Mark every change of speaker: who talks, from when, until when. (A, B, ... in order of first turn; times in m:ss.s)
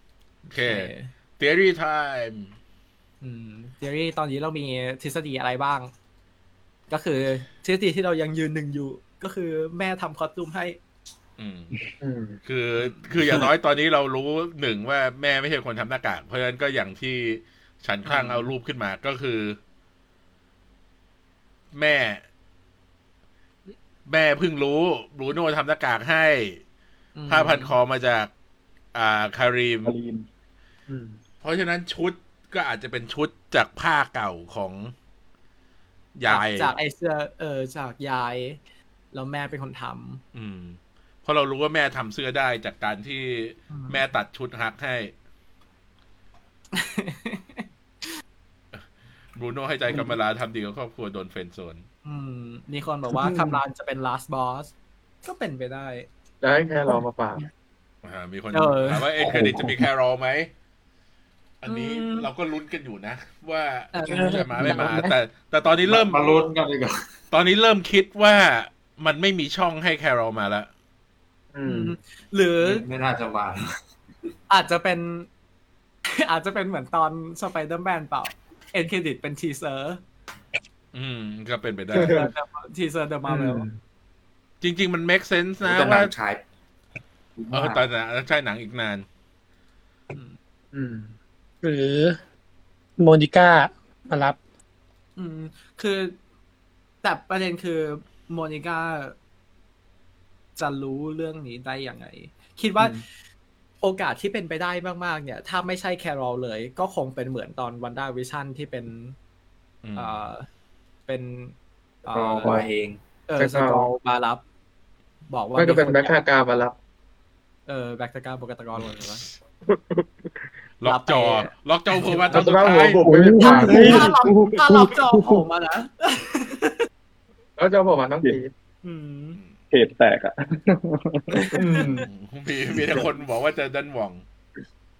0:00.5-0:02.5 A
0:00.6-0:01.1 B
0:03.2-0:05.9 B
0:06.9-0:10.8 B
0:11.4-0:11.8 A
0:12.0-0:12.4 C
0:12.5-0:19.6 A
0:12.8-0:13.1 B
0:18.0-0:18.5 B
0:21.7-0:22.2 A
0:24.1-0:26.6 A
0:27.2-0:27.8 B
0:27.3-0:28.3 A
0:28.9-0:29.9 A
0:29.8-0:30.3 D
0:30.9-0:31.2 C
0:31.4-0:34.9 A
0:36.2-0:36.7 A
0:36.3-0:38.6 B
0:39.1-0:40.2 B
0:40.3-0:45.1 A
0:43.7-0:44.0 B
0:46.7-0:48.1 B
0:49.4-0:51.8 A
0:52.0-0:54.7 B
0:53.1-0:53.6 C
0:55.2-0:56.1 B
0:56.4-0:57.4 C
0:58.0-1:00.5 A
0:58.5-0:59.1 B
1:01.6-1:06.4 A
1:01.7-1:02.3 B
1:03.9-1:05.1 B
1:05.9-1:07.1 E
1:07.3-1:10.7 A
1:11.5-1:11.9 C
1:11.6-1:12.8 B
1:12.6-1:13.7 E
1:14.5-1:15.3 B
1:16.0-1:20.0 B
1:20.9-1:22.3 A
1:21.9-1:22.3 C
1:22.0-1:23.6 B
1:23.3-1:23.8 C
1:24.6-1:26.1 A
1:25.6-1:26.4 E
1:27.4-1:27.9 E
1:27.5-1:29.0 A
1:30.7-1:31.1 C
1:31.6-1:32.2 F
1:33.0-1:34.4 F
1:35.2-1:36.2 B
1:37.0-1:39.2 B
1:40.6-1:43.0 B
1:43.8-1:49.2 B
1:49.8-1:50.3 A
1:50.0-1:50.5 B
1:51.1-1:52.7 B
1:52.1-1:53.0 E
1:53.3-1:54.4 B
1:53.4-1:53.9 C
1:55.3-1:56.2 B
1:55.6-1:56.8 C
1:57.7-1:59.2 B
1:58.8-1:59.3 A
1:59.7-2:00.4 C
2:00.8-2:03.0 A
2:00.8-2:01.5 B
2:02.1-2:02.4 B
2:02.3-2:04.3 C
2:03.0-2:05.4 D
2:03.4-2:06.9 B
2:07.6-2:08.5 C
2:08.8-2:09.4 B
2:09.7-2:11.6 D
2:11.5-2:12.0 C
2:11.8-2:12.0 B
2:12.0-2:14.2 A